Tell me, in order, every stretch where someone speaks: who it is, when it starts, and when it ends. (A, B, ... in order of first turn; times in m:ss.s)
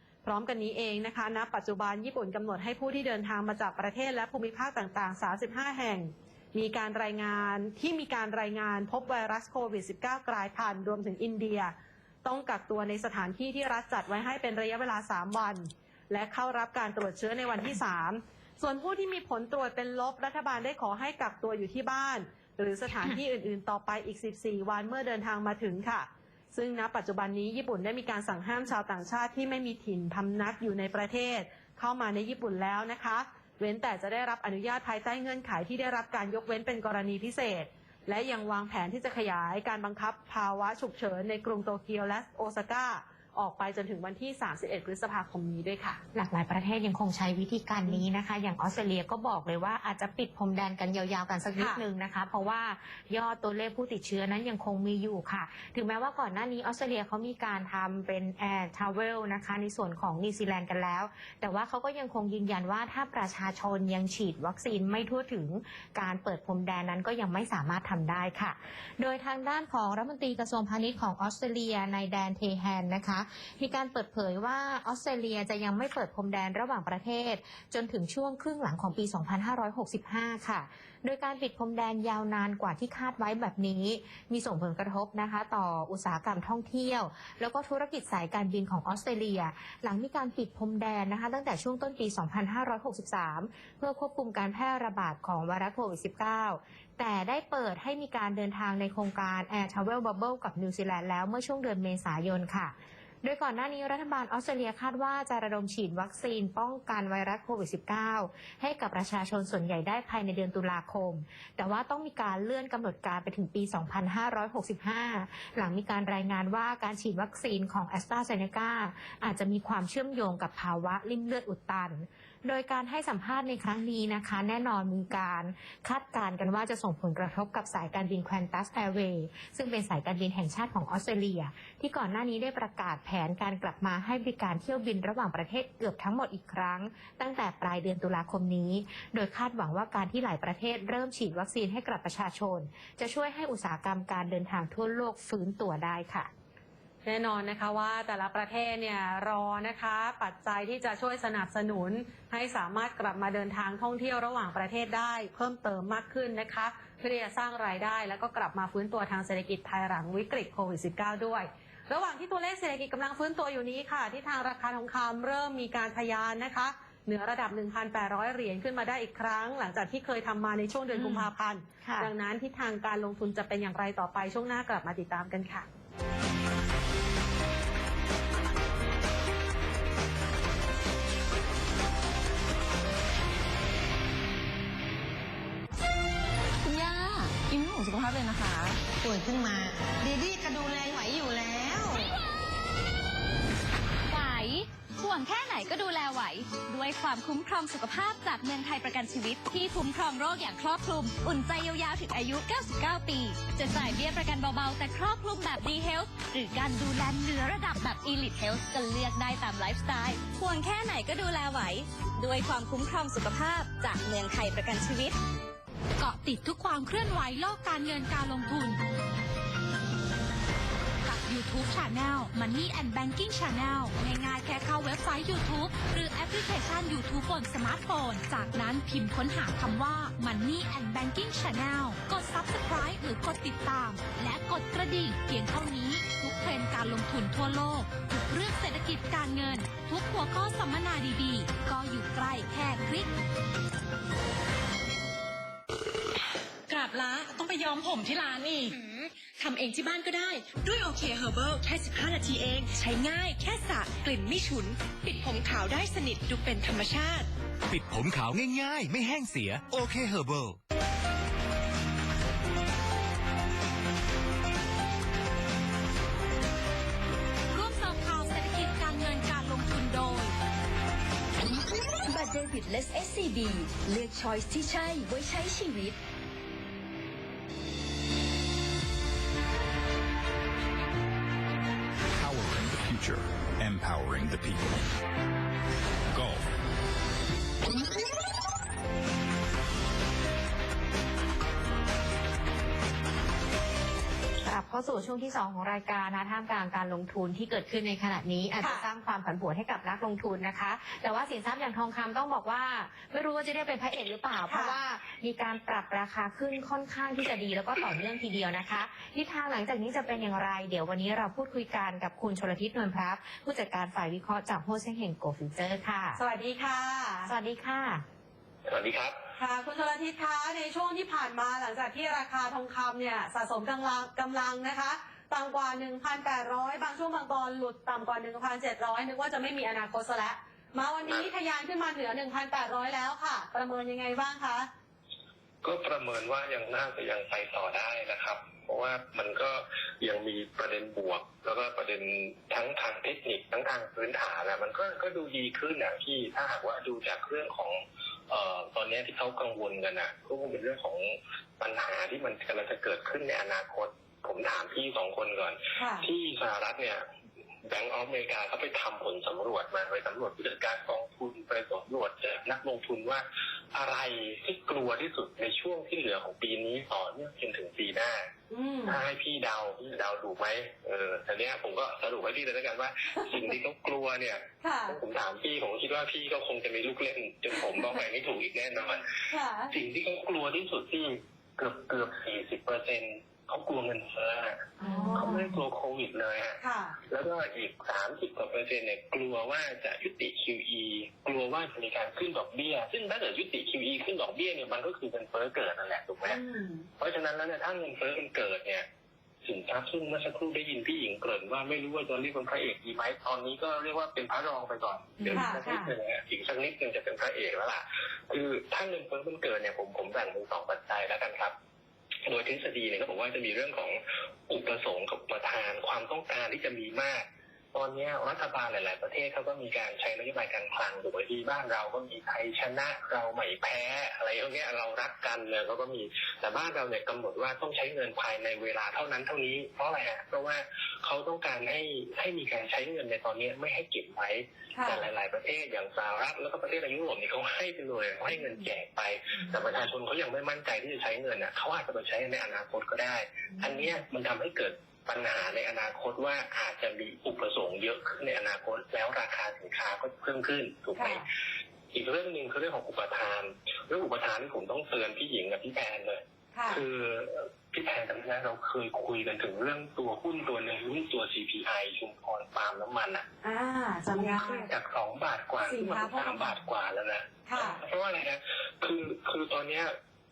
0:00.2-0:46.0 A
0:46.1-2:26.3 B
2:27.0-2:55.6 A
2:50.9-2:51.3 B
2:51.8-2:52.1 B
3:06.6-3:08.8 C
3:08.9-3:12.0 D
3:14.1-3:35.2 E
3:36.0-3:38.8 F
3:41.0-4:03.1 F
4:06.7-4:17.3 G
4:17.7-4:20.6 H
4:27.5-4:30.3 F
4:31.4-4:36.0 C
4:42.2-4:44.9 I
4:46.1-4:46.4 I
4:54.4-5:16.2 B
4:58.6-4:58.8 A
5:04.5-5:04.8 A
5:16.2-5:17.3 A
5:17.3-5:18.0 B
5:18.6-5:19.2 J
5:19.4-5:34.7 A
5:35.6-5:57.0 J
5:55.8-5:56.1 A
5:57.6-6:08.2 J
6:08.5-6:09.0 A
6:08.8-6:19.1 J
6:14.6-6:15.0 A
6:19.3-6:19.7 A
6:19.7-6:36.4 J
6:24.8-6:25.4 A
6:24.9-6:25.4 B
6:26.6-6:27.0 A
6:36.2-6:36.9 A
6:37.0-6:38.8 J
6:39.4-6:51.5 J
6:45.2-6:45.9 B
6:45.3-6:45.6 A
6:52.2-7:31.2 J
7:14.7-7:15.0 A
7:31.0-7:31.2 A
7:31.9-7:43.2 J
7:36.5-7:36.8 A
7:43.4-7:44.7 A
7:44.1-7:50.0 J
7:45.6-7:46.6 A
7:47.5-7:47.8 A